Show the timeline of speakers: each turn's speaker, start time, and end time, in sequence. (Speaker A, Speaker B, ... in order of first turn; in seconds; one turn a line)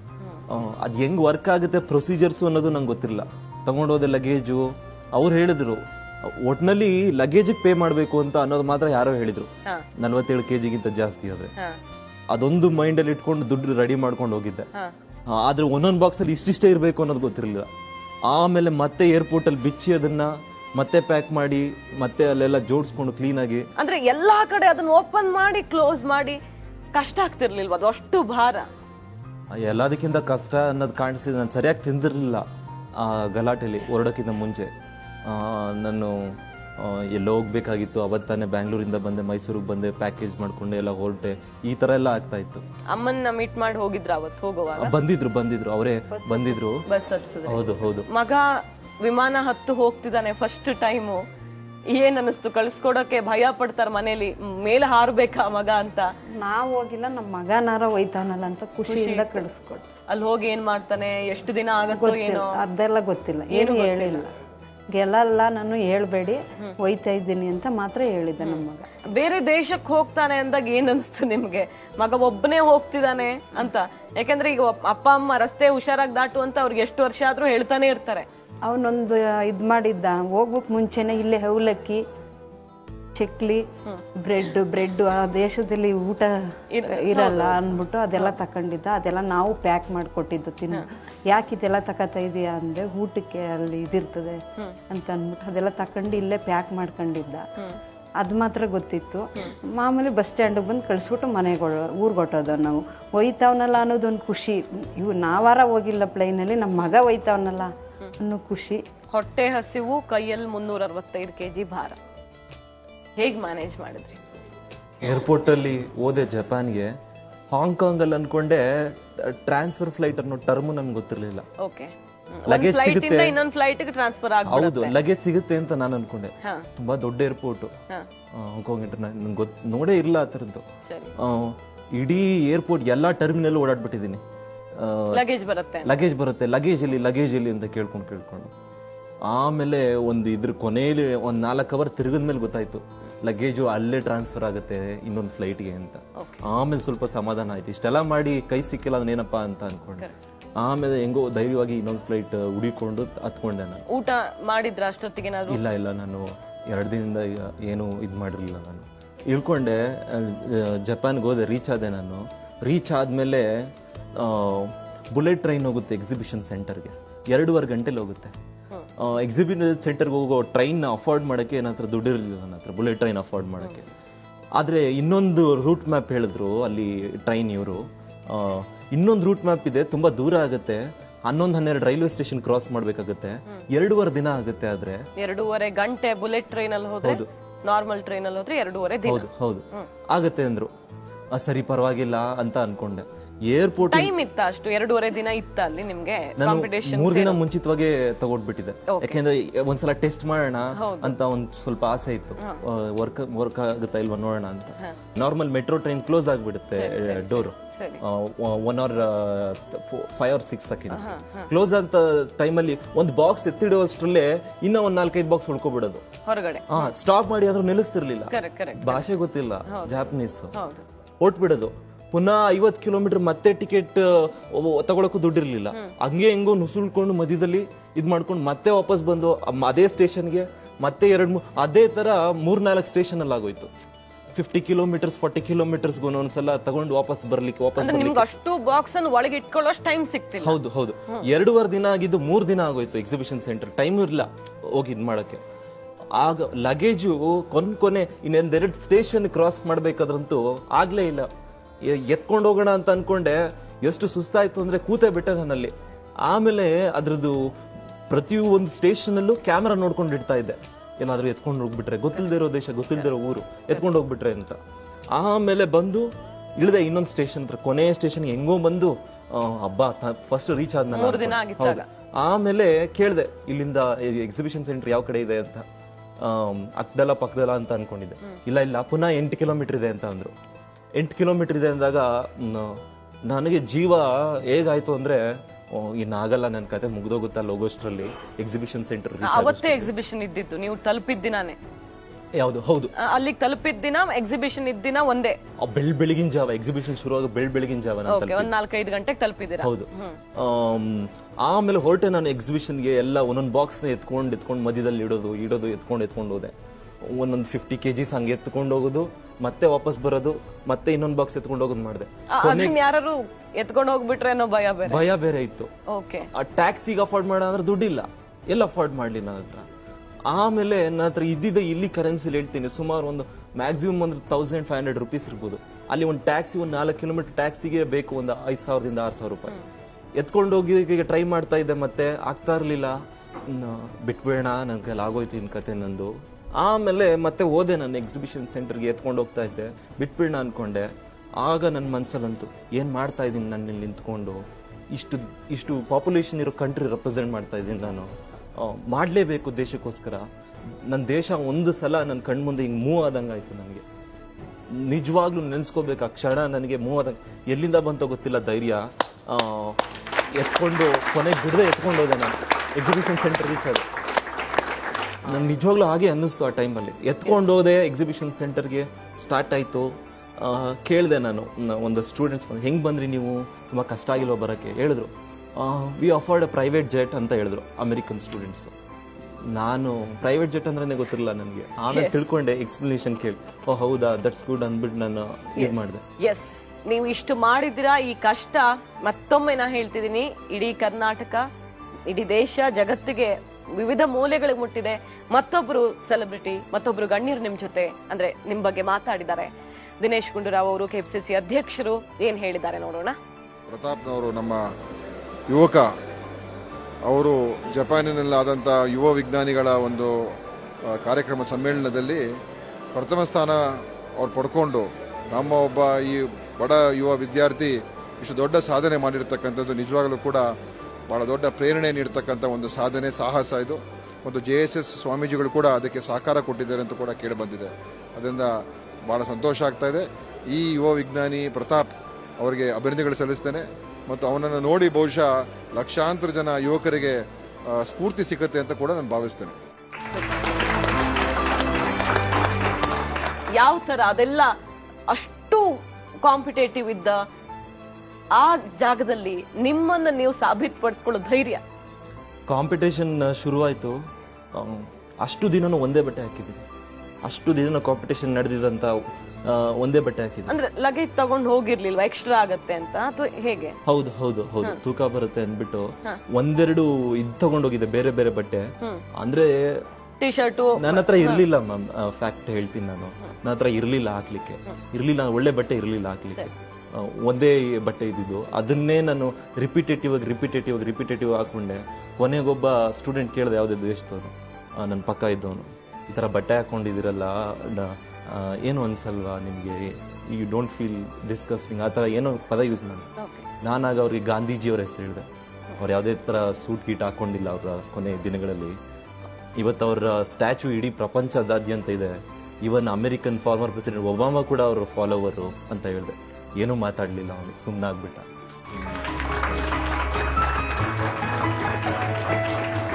Speaker A: 0.5-11.5
Speaker A: 12.3-14.7
Speaker A: 15.3-17.7
Speaker A: 18.3-23.7
Speaker B: 23.8-26.4
Speaker B: 26.9-28.7
Speaker A: 29.5-34.7
Speaker A: 35.2-42.6
Speaker B: 42.9-44.9
Speaker A: 44.8-46.8
Speaker C: 46.1-46.6
Speaker B: 46.9-48.5
Speaker A: 47.5-48.0
Speaker B: 49.0-51.2
Speaker B: 51.9-56.1
Speaker C: 56.4-59.9
Speaker B: 58.9-59.4
Speaker B: 60.1-62.6
Speaker C: 61.9-64.3
Speaker B: 63.5-64.2
Speaker C: 64.9-68.9
Speaker B: 68.4-78.2
Speaker C: 78.7-82.0
Speaker C: 83.2-83.6
Speaker C: 84.2-86.3
Speaker B: 86.7-87.6
Speaker C: 86.8-94.4
Speaker C: 94.9-97.4
Speaker C: 98.2-108.8
Speaker B: 109.1-112.0
Speaker B: 113.2-114.2
Speaker A: 115.0-116.9
Speaker A: 117.5-121.5
Speaker B: 121.6-124.9
Speaker A: 122.5-123.3
Speaker A: 124.5-127.7
Speaker A: 128.3-130.6
Speaker A: 131.2-134.2
Speaker A: 134.8-135.2
Speaker B: 135.1-135.9
Speaker A: 135.8-138.5
Speaker A: 139.2-150.1
Speaker A: 150.6-153.8
Speaker B: 153.9-155.6
Speaker A: 155.5-168.3
Speaker A: 169.0-173.9
Speaker A: 174.6-185.0
Speaker B: 185.2-189.9
Speaker A: 187.0-187.3
Speaker A: 189.0-190.7
Speaker A: 191.3-194.1
Speaker B: 193.9-197.4
Speaker A: 196.4-216.0
Speaker B: 198.9-199.2
Speaker B: 200.8-201.1
Speaker B: 206.8-208.0
Speaker B: 210.9-211.5
Speaker B: 216.3-216.9
Speaker A: 216.7-220.5
Speaker B: 218.3-219.0
Speaker B: 220.6-220.8
Speaker A: 221.2-233.7
Speaker A: 234.3-238.2
Speaker B: 237.8-240.6
Speaker A: 240.4-245.4
Speaker A: 246.2-251.3
Speaker A: 251.8-255.7
Speaker A: 256.2-257.4
Speaker A: 258.1-264.6
Speaker A: 265.1-275.6
Speaker B: 270.9-271.8
Speaker A: 276.2-280.3
Speaker A: 281.0-289.9
Speaker B: 289.2-291.6
Speaker A: 292.4-292.9
Speaker B: 293.0-295.4
Speaker A: 295.6-298.5
Speaker B: 298.1-300.1
Speaker A: 299.6-312.8
Speaker B: 312.3-315.0
Speaker A: 314.9-315.7
Speaker B: 315.9-316.3
Speaker A: 316.3-319.6
Speaker A: 320.3-329.6
Speaker A: 330.2-350.2
Speaker A: 350.9-353.8
Speaker A: 354.7-359.8
Speaker A: 360.3-363.8
Speaker A: 365.2-378.7
Speaker A: 379.5-386.0
Speaker B: 381.9-382.2
Speaker B: 385.6-391.4
Speaker B: 392.1-403.2
Speaker D: 403.7-404.6
Speaker D: 405.5-405.9
Speaker D: 407.1-410.1
Speaker D: 410.9-412.2
Speaker D: 412.9-413.6
Speaker D: 414.2-420.4
Speaker D: 421.1-428.5
Speaker D: 429.1-439.6
Speaker B: 443.5-444.5
Speaker B: 445.1-447.2
Speaker B: 448.4-451.6
Speaker A: 452.5-454.0
Speaker A: 454.5-456.6
Speaker A: 457.2-458.9
Speaker A: 459.4-460.5
Speaker B: 460.5-463.8
Speaker A: 463.8-469.8
Speaker B: 470.2-471.4
Speaker A: 470.8-493.1
Speaker B: 493.2-493.5
Speaker A: 493.6-495.3
Speaker A: 495.8-498.8
Speaker A: 499.6-508.3